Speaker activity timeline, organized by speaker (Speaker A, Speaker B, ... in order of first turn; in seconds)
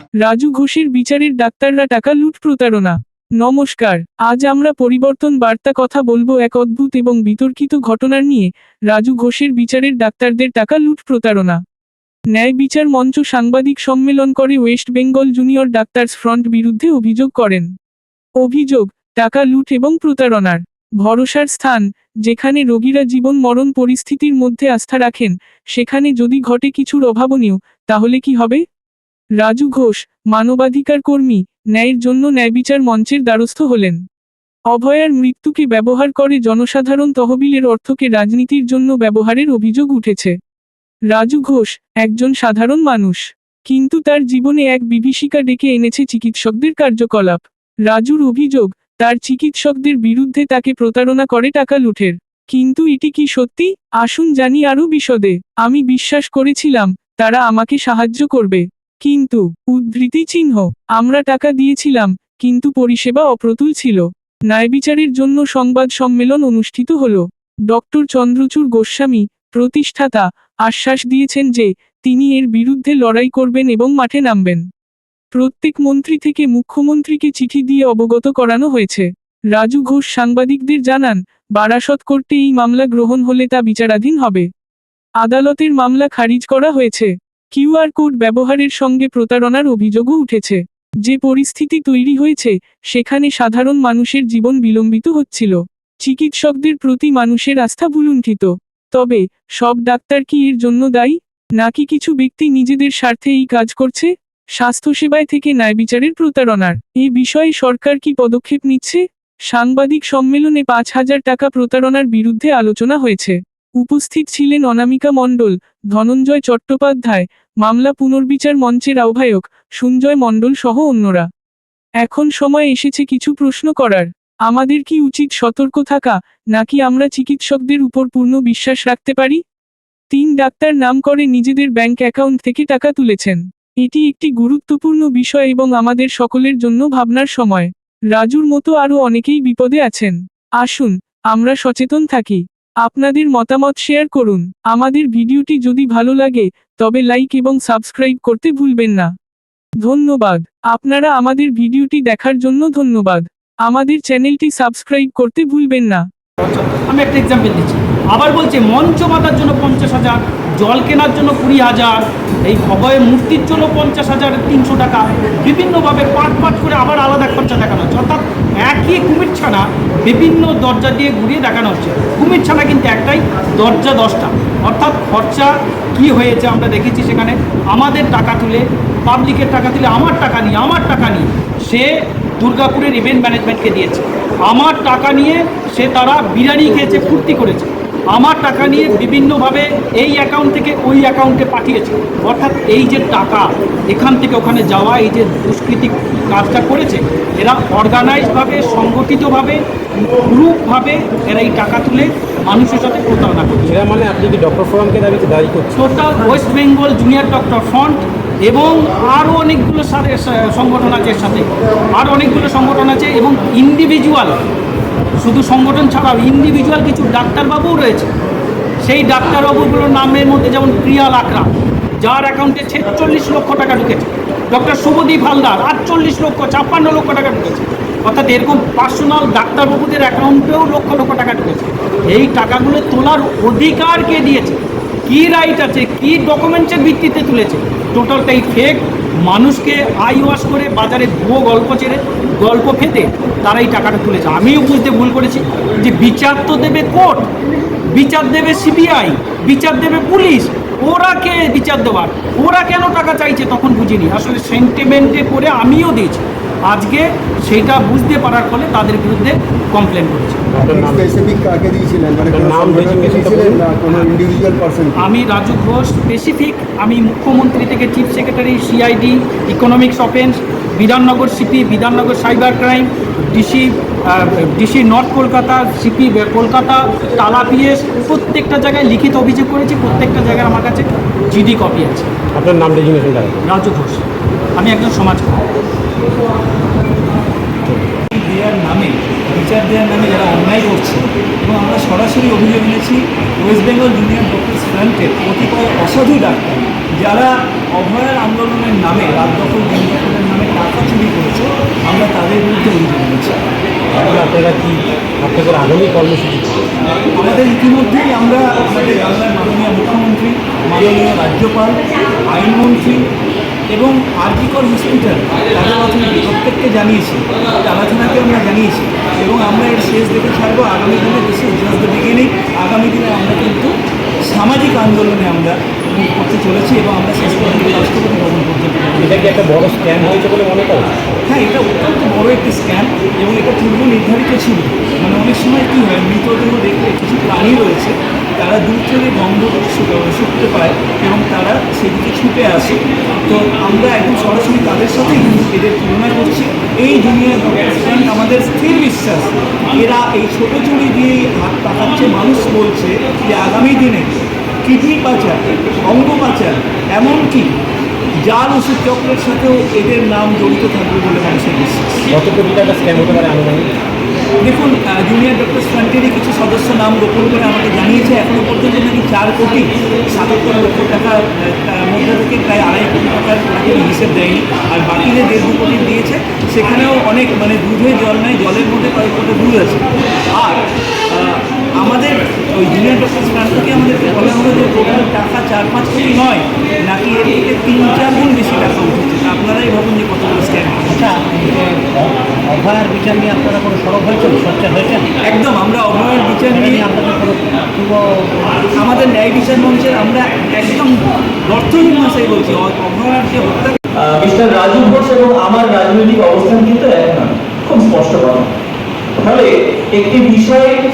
Speaker A: 0.2-11.6, 12.3-17.7, 18.4-28.6, 29.4-34.0, 34.7-40.3, 41.1-74.6, 75.3-84.5, 85.2-121.3, 122.0-129.4, 130.1-149.1, 149.8-156.0
Speaker B: 156.4-199.6, 200.1-203.7, 205.7-214.4, 215.2-218.1, 218.8-247.3, 247.9-260.5, 265.0-282.1, 283.4-284.0, 284.6-285.4
Speaker C: 203.6-205.8, 260.5-261.1, 262.2-264.2, 282.3-283.4, 304.0-306.6, 329.0-331.0, 362.1-363.7
Speaker D: 260.6-264.9
Speaker E: 288.1-303.4, 307.1-313.0, 313.7-323.7, 324.3-329.3, 331.3-357.5, 358.2-362.0, 364.4-391.0, 395.2-396.9, 398.7-403.8
Speaker F: 383.9-384.4, 390.9-395.1, 396.5-398.6
Speaker G: 404.0-408.5, 409.2-410.8